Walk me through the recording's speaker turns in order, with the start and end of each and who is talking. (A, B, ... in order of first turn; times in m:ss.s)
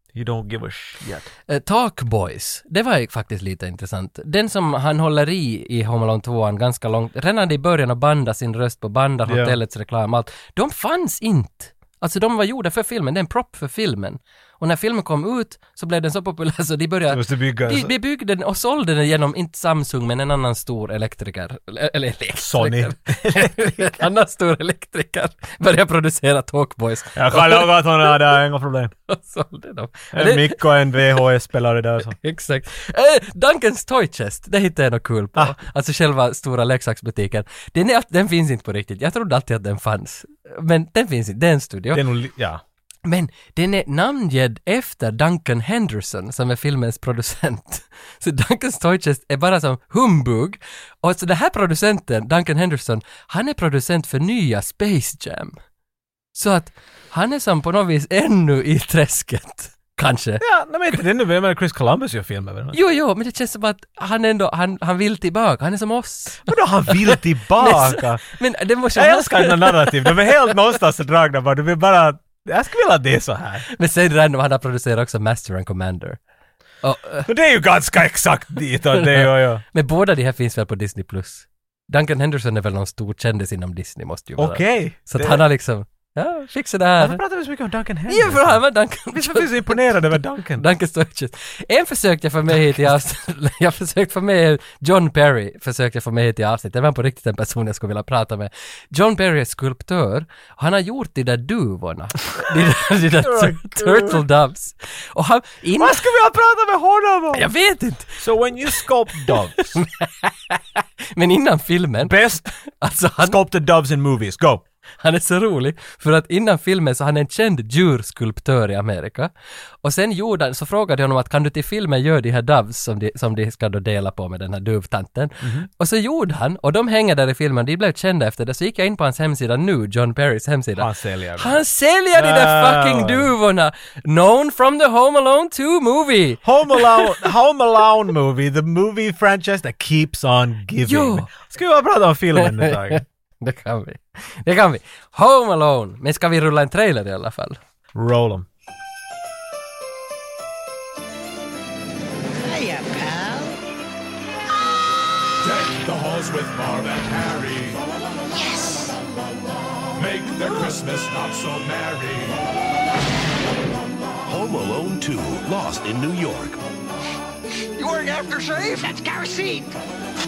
0:00.1-0:01.2 A
0:01.0-0:28.4 B
0:09.2-0:09.6 A
0:17.1-0:17.9 A
0:22.4-0:24.0 A
0:27.1-0:28.9 A
0:29.1-0:30.7 B
0:30.1-0:32.1 A
0:32.0-0:42.0 B
0:41.9-0:42.6 A
0:43.1-0:55.6 B
0:56.3-1:00.4 B
1:00.4-1:02.8 A
1:02.7-1:10.5 B
1:06.5-1:08.2 A
1:08.9-1:13.6 A
1:13.7-1:16.2 B
1:16.8-1:17.3 B
1:17.2-1:19.6 A
1:18.9-1:27.2 B
1:24.4-1:25.4 A
1:27.0-1:30.6 A
1:28.1-1:30.0 B
1:30.6-1:46.1 B
1:43.2-1:44.2 A
1:45.8-1:47.5 A
1:47.3-1:53.4 B
1:48.2-1:49.8 A
1:52.0-1:52.5 A
1:53.2-1:54.6 A
1:55.0-1:59.3 B
1:59.8-2:17.2 B
2:05.4-2:05.7 A
2:10.8-2:11.6 A
2:12.2-2:13.3 A
2:16.4-2:23.0 A
2:20.8-2:21.3 B
2:22.4-2:27.6 B
2:27.9-2:28.5 A
2:32.5-2:33.5 C
2:35.4-2:37.8 D
2:38.4-2:38.9 C
2:40.0-2:42.4 D
2:44.3-2:46.6 E
2:47.8-2:49.7 C